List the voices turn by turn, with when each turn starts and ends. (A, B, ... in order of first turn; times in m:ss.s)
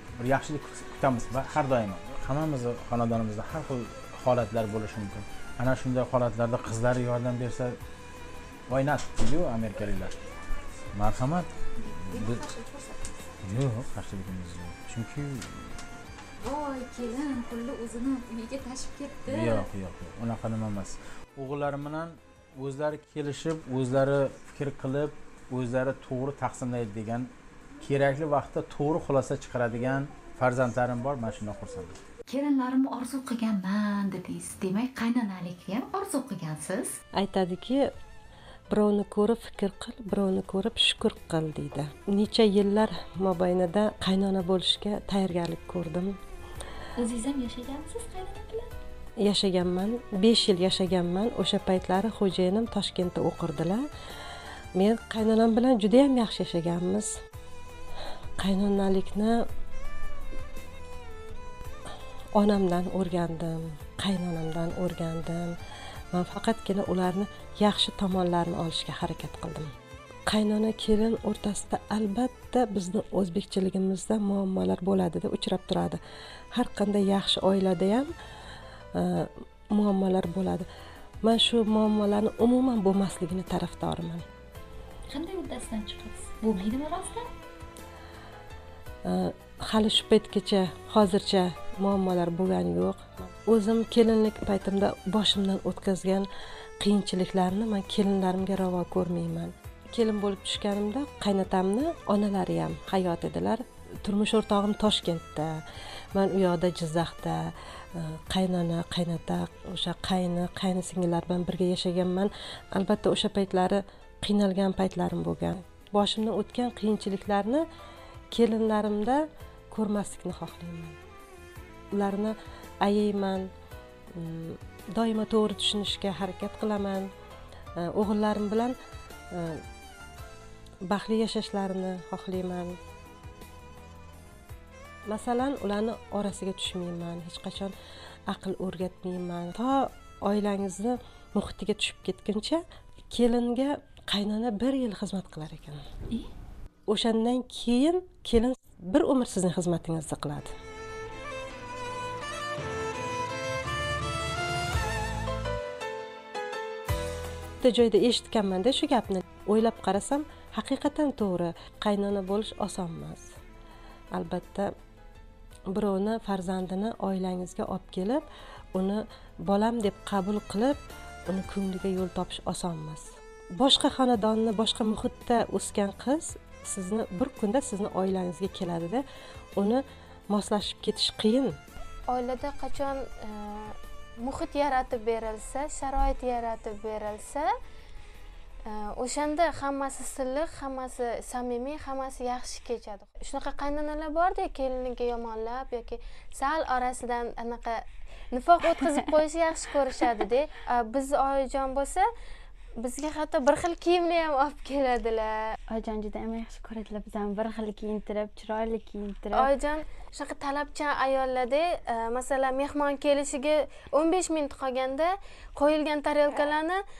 0:00.2-0:07.8 A
0:08.7-0:10.1 A
0:10.9-0:11.5 A
0:11.8-0:13.1 B
0:12.0-0:12.5 A
0:13.4-0:15.7 A
0:16.4-0:19.7 B
0:19.3-0:27.3 A
0:27.8-0:32.0 A
0:32.3-0:37.0 B
0:37.2-0:37.8 C
0:38.7-0:46.2 C
0:47.0-0:48.7 B
0:49.2-0:53.8 C
0:54.8-0:57.1 C
0:58.4-0:59.3 C
1:02.3-1:05.5 C
1:06.1-1:09.7 C
1:10.3-1:16.0 C
1:16.5-1:18.0 C
1:19.0-1:20.6 C
1:21.2-1:24.2 C
1:25.1-1:27.3 B
1:29.0-1:36.3 C
1:36.8-1:45.5 C
1:46.1-1:57.6 C
1:58.3-2:01.0 C
2:01.9-2:03.5 C
2:04.2-2:07.1 C
2:07.8-2:08.7 C
2:09.3-2:09.6 C
2:10.9-2:12.8 C
2:15.1-2:17.7 C
2:18.3-2:25.8 C
2:26.9-2:30.5 C
2:37.6-2:43.3 C
2:44.1-2:44.7 C
2:45.7-2:59.0 C
2:59.6-3:01.5 C
3:02.1-3:07.5 D
3:08.7-3:22.0 D
3:18.8-3:19.1 E
3:22.8-3:25.4 D
3:25.7-3:29.5 E
3:29.3-3:36.8 D